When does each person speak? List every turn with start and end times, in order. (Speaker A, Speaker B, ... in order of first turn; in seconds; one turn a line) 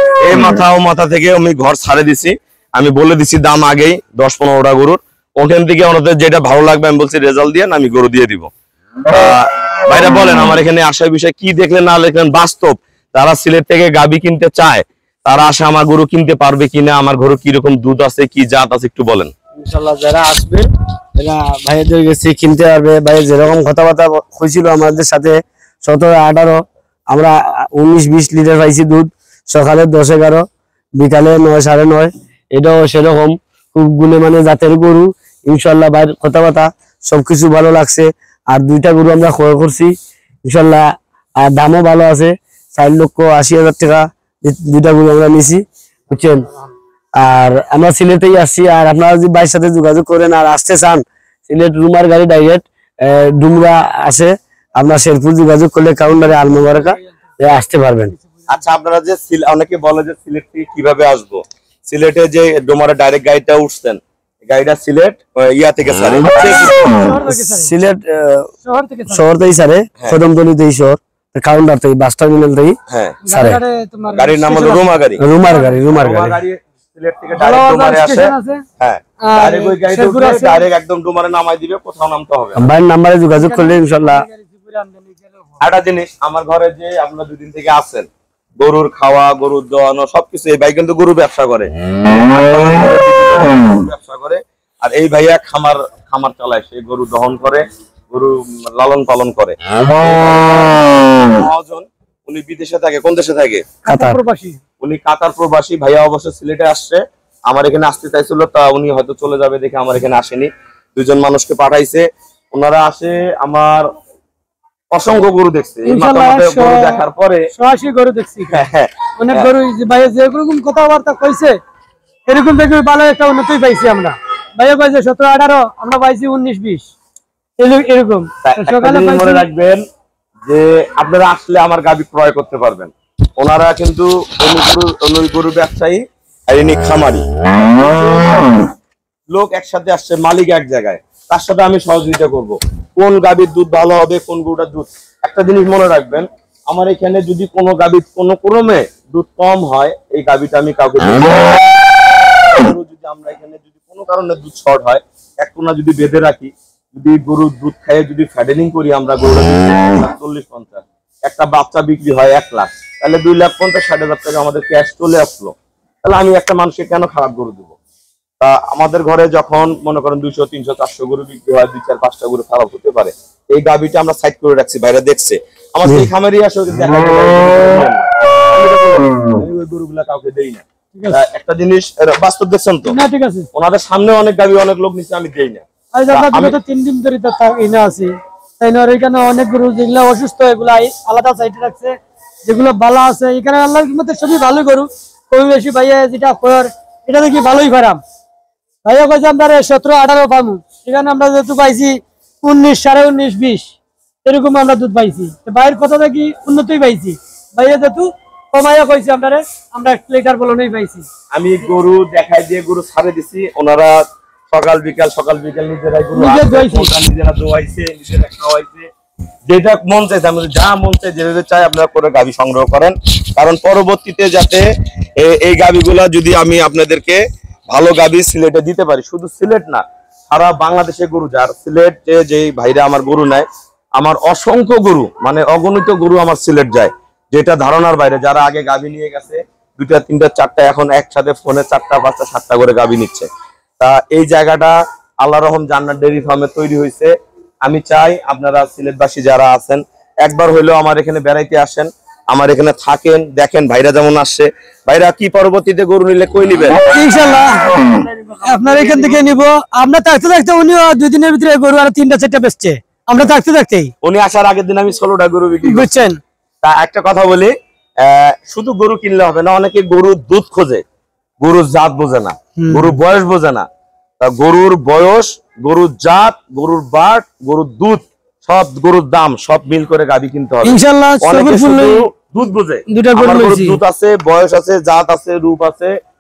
Speaker A: 0.2-8.5
Speaker A: 9.1-19.3
Speaker B: 19.6-30.5
Speaker B: 31.0-39.9
Speaker B: 40.5-40.9
Speaker B: 41.4-46.5
Speaker B: 47.2-58.1
Speaker C: 58.2-58.6
Speaker A: 58.5-66.8
Speaker C: 66.4-67.7
Speaker B: 67.3-68.5
Speaker C: 68.6-69.2
Speaker B: 69.1-72.8
Speaker A: 72.9-73.2
Speaker C: 73.2-75.9
Speaker B: 73.3-73.6
Speaker A: 74.1-75.2
Speaker B: 75.2-76.4
Speaker A: 75.9-82.7
Speaker C: 77.3-78.6
Speaker C: 79.2-80.6
Speaker B: 82.5-84.2
Speaker C: 83.4-85.7
Speaker A: 85.6-103.7
Speaker C: 103.8-104.6
Speaker B: 103.9-104.2
Speaker A: 104.8-113.9
Speaker A: 114.9-117.5
Speaker C: 115.8-117.0
Speaker C: 117.5-118.6
Speaker A: 118.5-119.5
Speaker C: 119.2-121.6
Speaker C: 122.3-126.9
Speaker C: 127.6-129.5
Speaker A: 128.4-129.8
Speaker A: 130.5-138.6
Speaker A: 139.3-151.8
Speaker A: 152.5-167.8
Speaker A: 168.4-182.9
Speaker B: 175.8-176.1
Speaker C: 180.9-181.2
Speaker C: 182.8-183.5
Speaker A: 183.5-186.6
Speaker C: 185.9-198.0
Speaker C: 198.8-211.1
Speaker A: 211.3-214.0
Speaker A: 214.5-218.9
Speaker C: 216.2-216.9
Speaker A: 219.5-224.7
Speaker A: 225.2-243.3
Speaker A: 243.8-256.7
Speaker C: 256.8-263.9
Speaker A: 258.1-259.3
Speaker A: 264.0-265.9
Speaker C: 265.6-266.2
Speaker A: 266.6-270.8
Speaker A: 271.4-273.7
Speaker C: 272.6-273.0
Speaker A: 274.2-286.0
Speaker C: 280.6-282.0
Speaker C: 282.9-283.8